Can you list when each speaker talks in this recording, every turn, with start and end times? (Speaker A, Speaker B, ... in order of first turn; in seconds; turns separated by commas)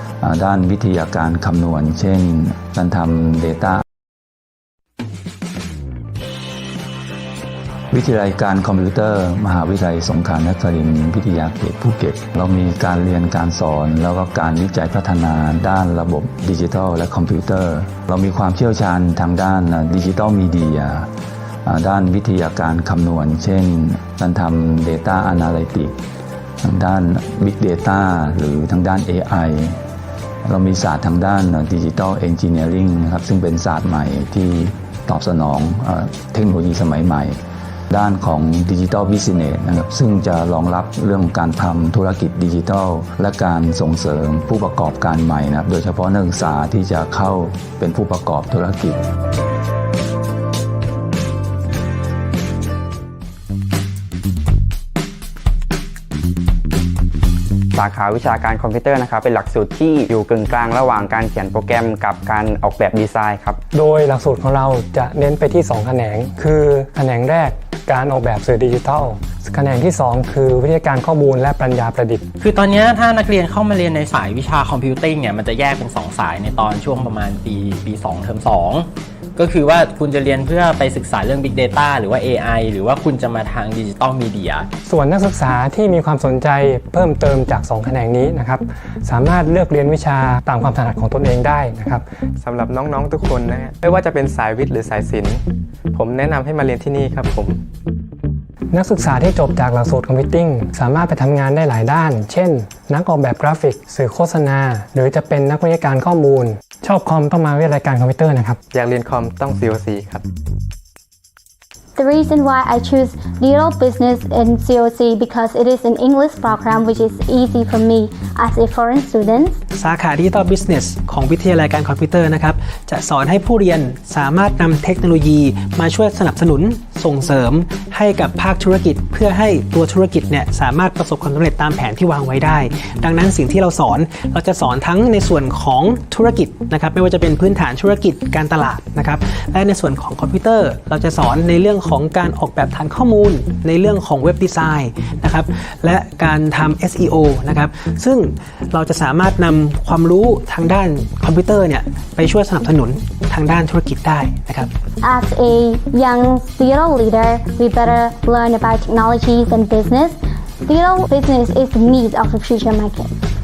Speaker A: 0.2-3.8, Speaker A: 7.9-21.1, Speaker A: 21.6-25.9, Speaker A: 26.6-29.8, Speaker A: 30.4-37.4, Speaker A: 37.9-49.0, Speaker B: 57.8-63.6, Speaker C: 63.7-72.2, Speaker D: 72.4-84.7, Speaker C: 84.9-92.1, Speaker E: 92.4-97.6, Speaker C: 98.7-108.6, Speaker E: 108.7-110.2, Speaker F: 112.0-119.6, Speaker G: 119.8-154.7, Speaker F: 155.0-163.1